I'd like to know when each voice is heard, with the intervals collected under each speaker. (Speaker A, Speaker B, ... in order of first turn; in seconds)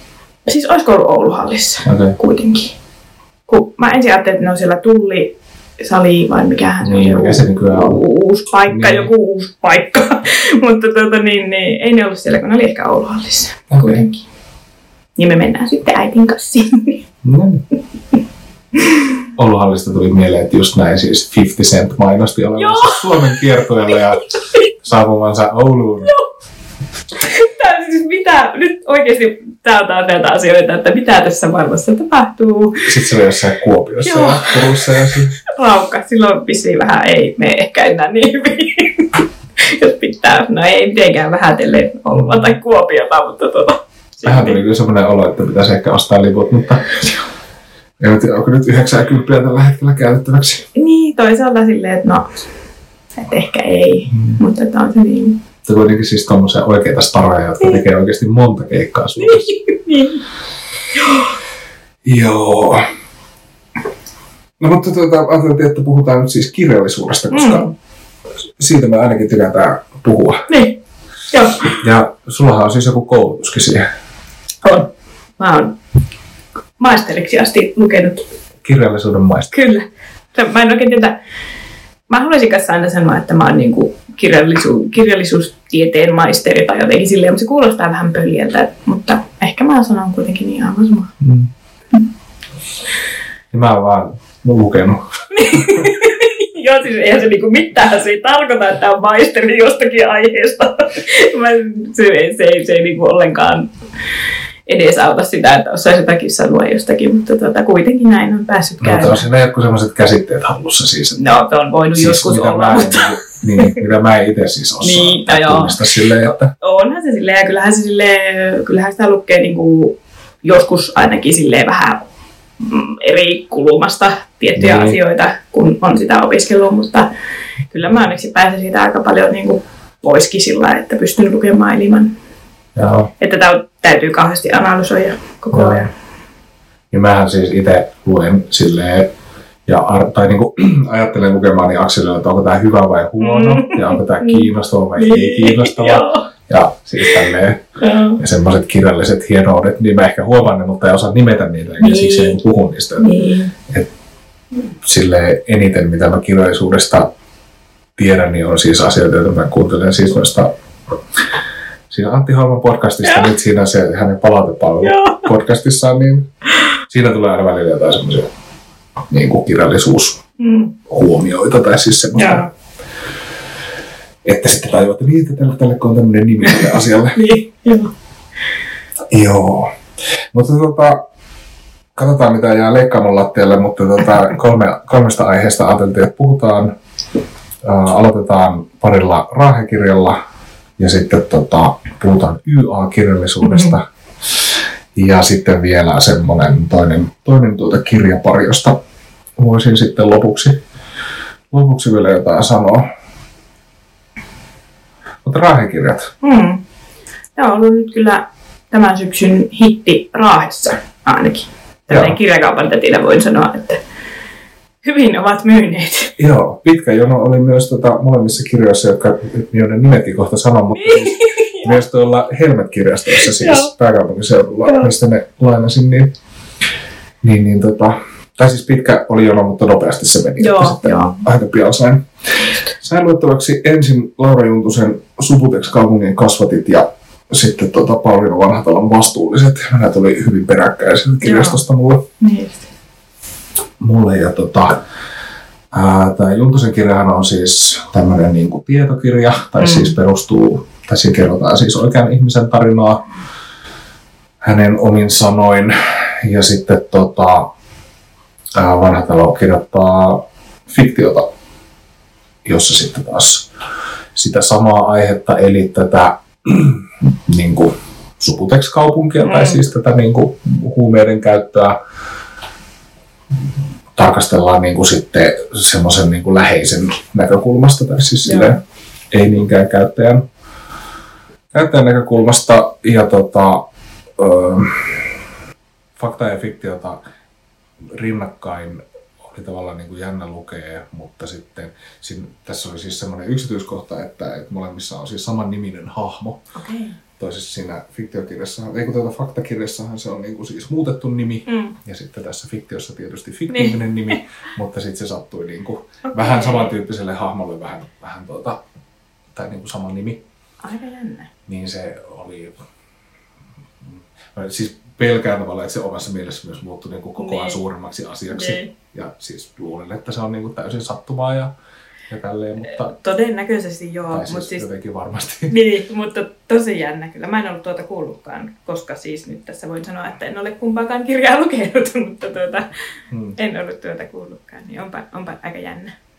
Speaker A: 0.5-2.7, 3.5-14.2, 15.2-17.0, 22.6-24.7, 27.2-32.9, 34.0-44.6, 50.8-52.3, 53.2-55.4, 59.2-60.2, 61.0-61.3, 67.3-67.7, 70.5-70.8, 71.3-71.8, 74.6-75.7, 76.8-78.2, 79.5-81.2, 82.1-91.1, 95.3-103.7, 104.7-109.2, 111.2-113.1, 114.8-115.8, 116.6-122.0, 122.6-127.1, 127.7-132.1, 133.2-135.9, 143.2-146.3, 147.0-148.2, 151.8-152.4, 153.0-153.5, 163.0-163.3, 164.8-165.3, 170.4-170.7, 172.1-172.5, 177.1-177.9, 193.4-193.7, 206.2-206.6, 207.3-213.8, 214.8-216.2, 220.7-221.8, 223.1-223.7, 224.6-224.9, 230.4-231.2, 241.2-241.6, 242.2-242.7, 249.6-250.0, 269.2-269.6, 278.2-278.6, 296.5-297.0, 301.4-301.8, 303.5-304.2, 306.0-306.7, 310.6-311.3, 317.2-317.6, 318.3-318.7, 322.7-324.6, 325.5-332.7, 333.4-335.9
Speaker B: 1.8-2.1, 6.8-8.0, 8.7-9.1, 13.7-14.0, 17.2-17.6, 19.4-24.3, 24.8-26.1, 32.8-35.3, 42.1-42.5, 44.2-46.9, 48.0-50.6, 55.6-59.5, 62.0-62.8, 64.6-67.7, 68.6-70.4, 71.6-73.9, 78.6-79.5, 91.2-91.5, 93.5-95.9, 108.8-111.2, 111.9-116.5, 124.5-125.0, 132.8-133.1, 135.5-135.9, 136.9-139.1, 139.7-147.6, 148.2-153.1, 154.8-157.1, 157.9-160.5, 161.9-166.3, 166.9-168.3, 169.1-170.2, 170.9-172.5, 174.2-177.2, 179.1-179.7, 180.3-181.0, 181.9-186.7, 187.6-190.2, 190.8-198.8, 199.4-200.6, 201.5-202.8, 205.2-206.1, 211.9-212.2, 216.2-226.1, 227.2-242.0, 243.8-244.8, 245.7-253.0, 254.4-257.5, 258.6-261.3, 262.4-263.5, 264.1-271.8, 273.9-278.6, 279.1-280.2, 281.5-283.6, 284.2-285.1, 285.9-287.0, 287.9-296.5, 297.2-308.6, 309.3-310.2, 311.5-312.5, 313.8-321.5, 322.1-322.9, 324.1-325.5, 333.1-333.4